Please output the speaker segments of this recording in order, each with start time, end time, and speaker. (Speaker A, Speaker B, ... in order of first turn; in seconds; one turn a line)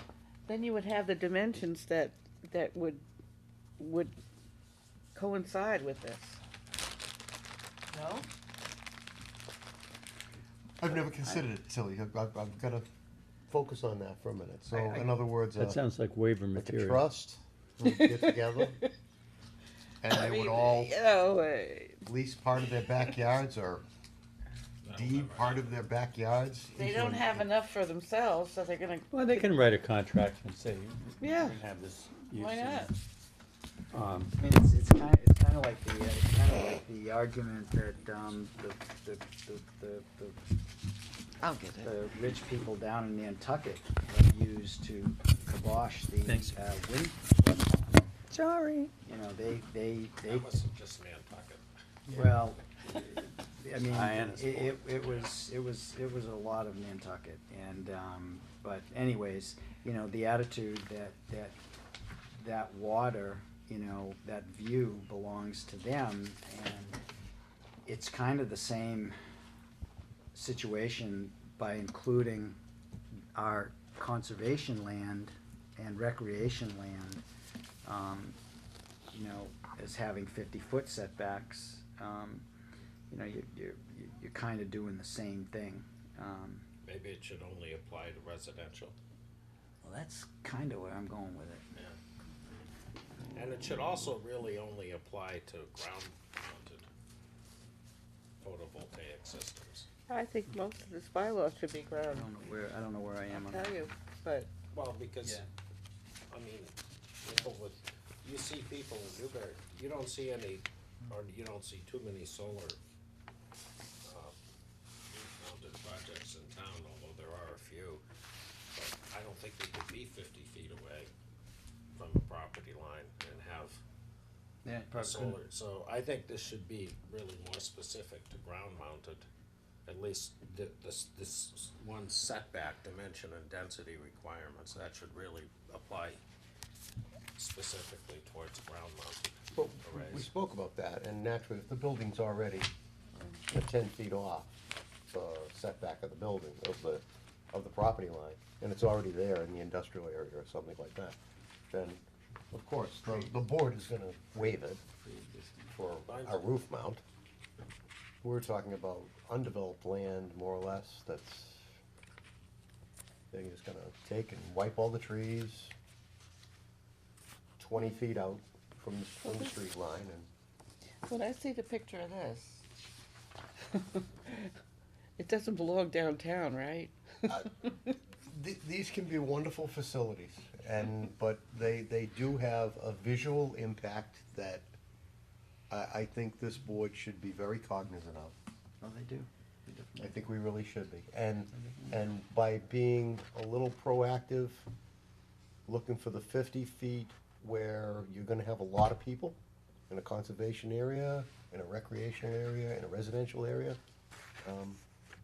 Speaker A: 0.5-3.0
Speaker A: 3.8-4.1
Speaker A: 5.1-6.4
Speaker A: 7.9-8.3
Speaker B: 10.8-12.8
Speaker B: 13.5-15.8
Speaker C: 14.7-17.1
Speaker B: 16.5-18.8
Speaker A: 17.9-18.9
Speaker B: 20.0-21.0
Speaker A: 20.1-22.0
Speaker B: 22.0-23.8
Speaker D: 24.8-25.8
Speaker B: 24.9-27.5
Speaker A: 26.7-29.5
Speaker C: 29.1-32.9
Speaker A: 31.2-31.6
Speaker A: 32.3-32.9
Speaker C: 33.9-34.3
Speaker E: 34.4-40.4
Speaker A: 41.4-41.9
Speaker E: 41.8-47.3
Speaker C: 46.2-46.5
Speaker C: 48.3-48.9
Speaker E: 49.0-50.5
Speaker D: 50.2-51.6
Speaker E: 52.1-61.5
Speaker C: 53.8-54.6
Speaker D: 54.6-55.3
Speaker E: 62.3-67.0
Speaker E: 67.8-69.1
Speaker E: 70.3-72.6
Speaker E: 73.3-77.2
Speaker E: 77.8-78.4
Speaker E: 79.1-82.5
Speaker E: 83.1-86.6
Speaker D: 86.8-88.9
Speaker E: 89.8-91.6
Speaker D: 93.3-96.9
Speaker D: 98.4-99.9
Speaker A: 100.1-102.3
Speaker E: 102.1-103.9
Speaker A: 103.4-104.5
Speaker D: 104.7-105.5
Speaker D: 106.3-112.8
Speaker D: 114.0-114.3
Speaker D: 115.1-118.0
Speaker D: 118.7-121.1
Speaker D: 121.9-123.8
Speaker E: 124.6-125.4
Speaker D: 124.9-129.2
Speaker D: 129.8-136.2
Speaker D: 137.3-140.3
Speaker B: 139.5-142.7
Speaker B: 143.5-144.6
Speaker B: 145.1-151.2
Speaker B: 151.7-154.8
Speaker E: 155.0-155.7
Speaker B: 155.8-157.0
Speaker D: 156.1-156.5
Speaker B: 158.2-161.7
Speaker B: 163.3-165.7
Speaker B: 167.6-170.3
Speaker A: 169.2-169.6
Speaker A: 171.1-172.7
Speaker A: 173.7-174.5
Speaker A: 175.2-177.7
Speaker B: 178.2-184.7
Speaker B: 185.7-188.3
Speaker E: 188.8-190.2
Speaker B: 190.0-194.7
Speaker E: 191.5-192.0
Speaker B: 195.7-199.4
Speaker B: 199.9-203.8
Speaker B: 204.4-204.8